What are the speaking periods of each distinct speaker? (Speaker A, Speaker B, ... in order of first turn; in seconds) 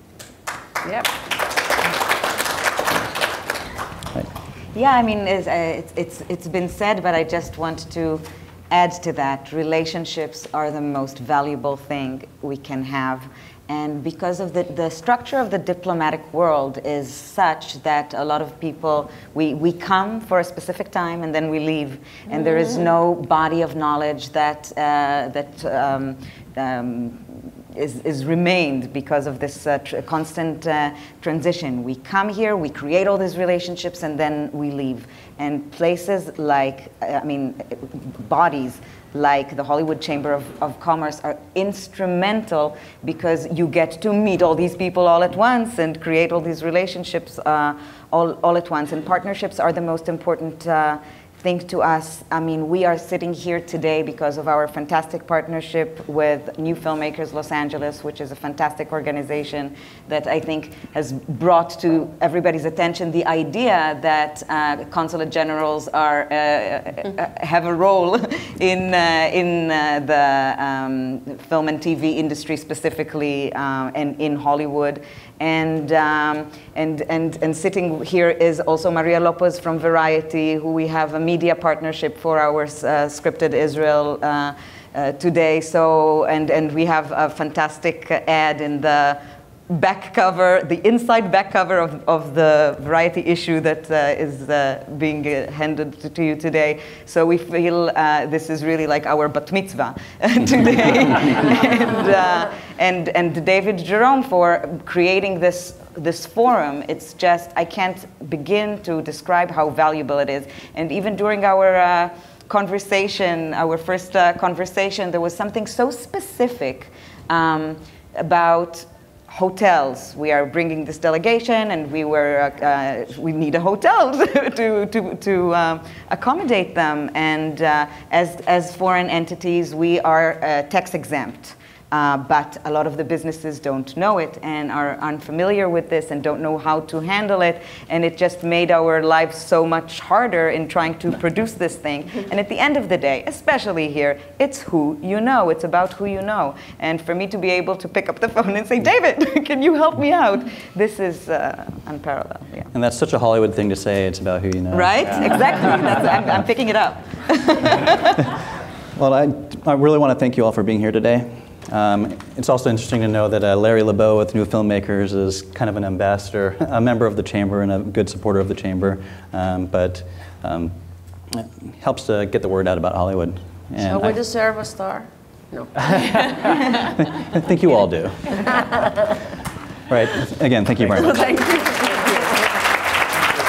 Speaker A: 0.8-1.1, 173.8-176.5, 181.0-182.5
Speaker B: 4.7-152.7, 154.7-158.2
Speaker C: 152.7-155.8, 158.9-170.7, 171.3-174.2, 176.7-178.8, 179.9-181.4